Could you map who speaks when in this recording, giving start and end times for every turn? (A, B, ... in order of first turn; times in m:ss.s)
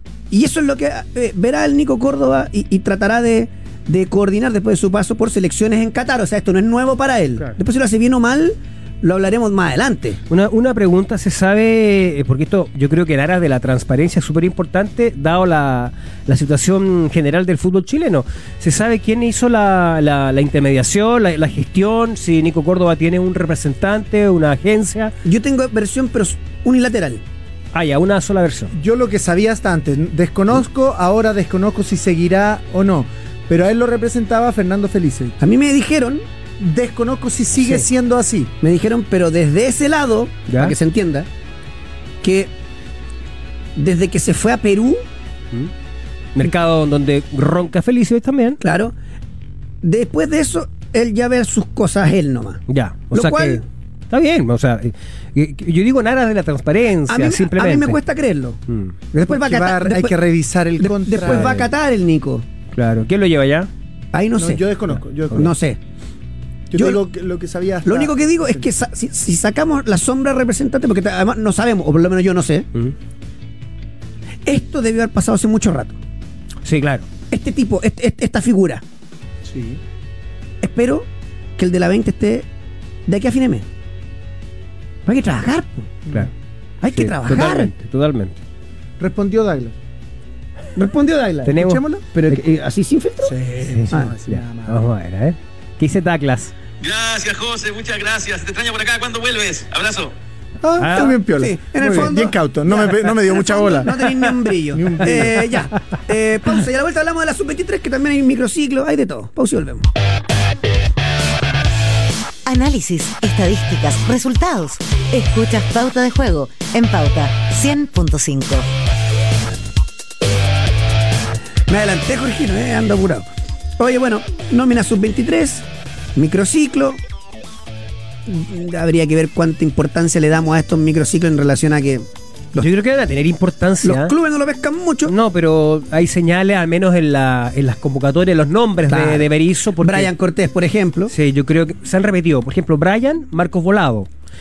0:00.3-0:10.2 A
0:10.3-0:25.1 B
0:25.2-0:27.2 A
0:27.7-0:28.7 B
0:28.7-0:35.4 C
0:35.4-0:36.2 A
0:36.6-0:38.5 C
0:37.6-0:37.8 B
0:38.6-0:41.3 A
0:40.5-0:40.7 B
0:42.2-0:42.5 A
0:43.8-0:45.0 A
0:46.3-0:48.6 B
0:48.6-0:48.9 A
0:49.8-0:53.6 A
0:52.7-0:58.0 B
0:57.1-0:58.6 A
0:58.7-0:58.9 B
0:59.1-1:00.1 A
0:59.2-1:01.7 C
1:00.8-1:02.4 A
1:01.3-1:01.6 B
1:02.7-1:03.7 B
1:04.1-1:04.6 A
1:04.4-1:05.5 C
1:05.3-1:05.8 A
1:06.7-1:08.4 C
1:07.8-1:12.7 A
1:14.4-1:16.0 A
1:16.6-1:17.0 B
1:17.3-1:18.8 A
1:19.4-1:19.8 C
1:20.6-1:22.4 A
1:23.1-1:23.6 A
1:25.0-1:25.9 A
1:26.8-1:27.7 A
1:26.9-1:28.4 B
1:29.0-1:29.8 C
1:30.7-1:33.4 A
1:31.4-1:32.4 B
1:31.6-1:32.0 C
1:33.2-1:34.8 C
1:33.6-1:36.5 B
1:36.8-1:40.1 D
1:40.6-1:44.2 C
1:40.8-1:41.2 B
1:40.9-1:49.9 A
1:44.7-1:45.5 C
1:52.4-1:58.7 E
2:01.7-2:03.3 A
2:03.8-2:07.0 A
2:08.3-2:12.0 A
2:12.6-2:14.1 B
2:13.8-2:15.1 A
2:15.0-2:20.1 B
2:18.9-2:21.1 A
2:21.1-2:24.1 B